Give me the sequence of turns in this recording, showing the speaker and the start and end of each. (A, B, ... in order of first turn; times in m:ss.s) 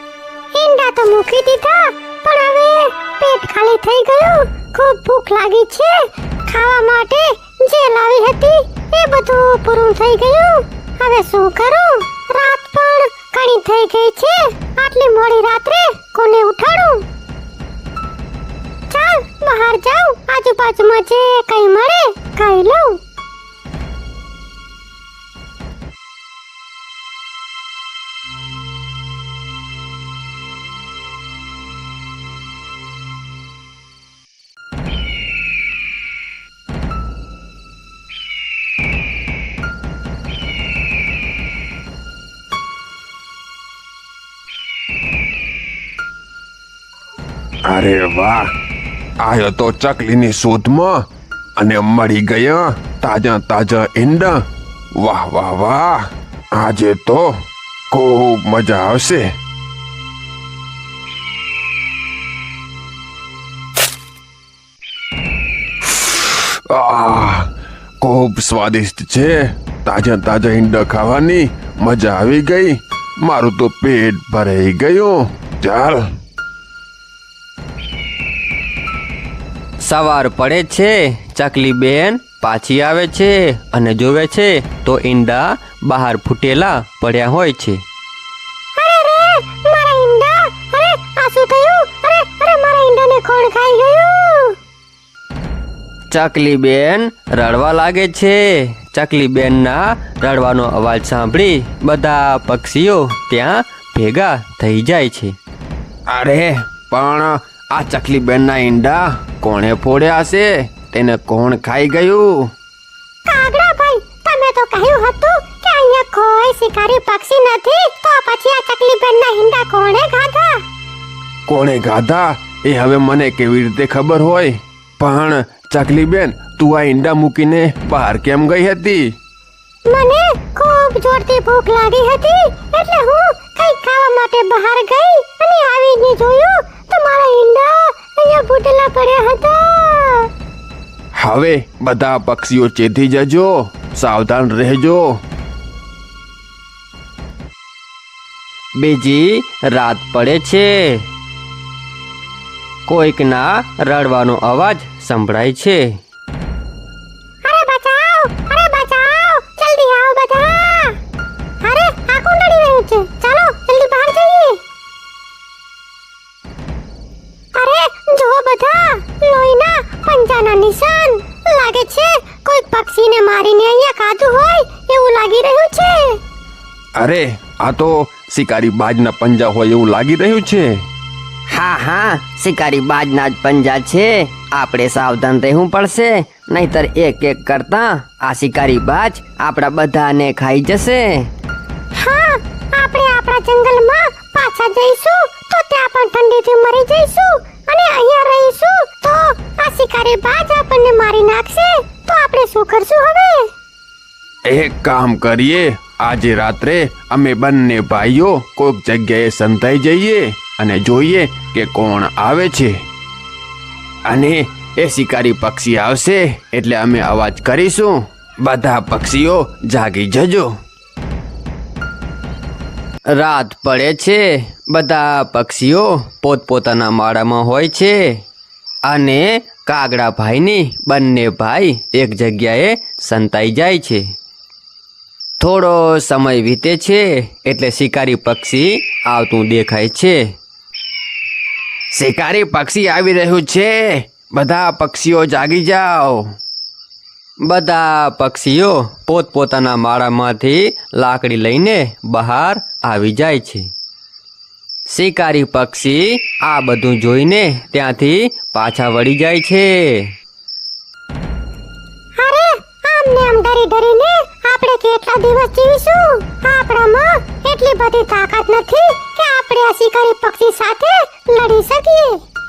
0:00.5-0:17.1 A
0:18.9-0:23.0 A
0:47.7-0:48.5 B
0:49.2-0:51.0 B
0:51.6-0:57.4 B
0:57.9-0:59.3 B
1:05.8-1:16.1 B
1:19.8-1:27.8 B
1:19.9-1:27.6 C
1:28.8-1:34.6 A
1:36.1-1:45.3 B
1:36.2-1:45.3 C
1:46.1-1:52.5 B
1:53.2-2:00.6 A
2:01.5-2:09.1 B
2:09.9-2:20.3 A
2:21.1-2:25.2 B
2:28.8-2:30.7 B
2:28.8-2:31.0 C
2:32.9-2:36.0 B
2:32.9-2:35.8 C
2:37.4-2:41.0 A
2:41.6-2:44.6 A
2:47.5-2:56.2 A
2:57.0-3:00.7 B
3:01.5-3:11.2 C
3:02.0-3:06.7 B
3:07.2-3:09.5 B
3:10.1-3:11.2 B
3:12.0-3:23.5 A
3:24.4-3:32.8 B
3:34.0-3:40.5 B
3:43.1-3:48.0 B
3:43.1-3:48.0 C
3:48.9-3:54.1 B
3:49.8-3:54.0 C
3:55.4-4:00.2 B
3:55.6-4:00.1 C
4:01.9-4:06.3 B
4:07.5-4:13.6 C
4:07.5-4:13.6 B
4:14.9-4:20.0 B
4:14.9-4:20.1 C
4:22.2-4:32.2 A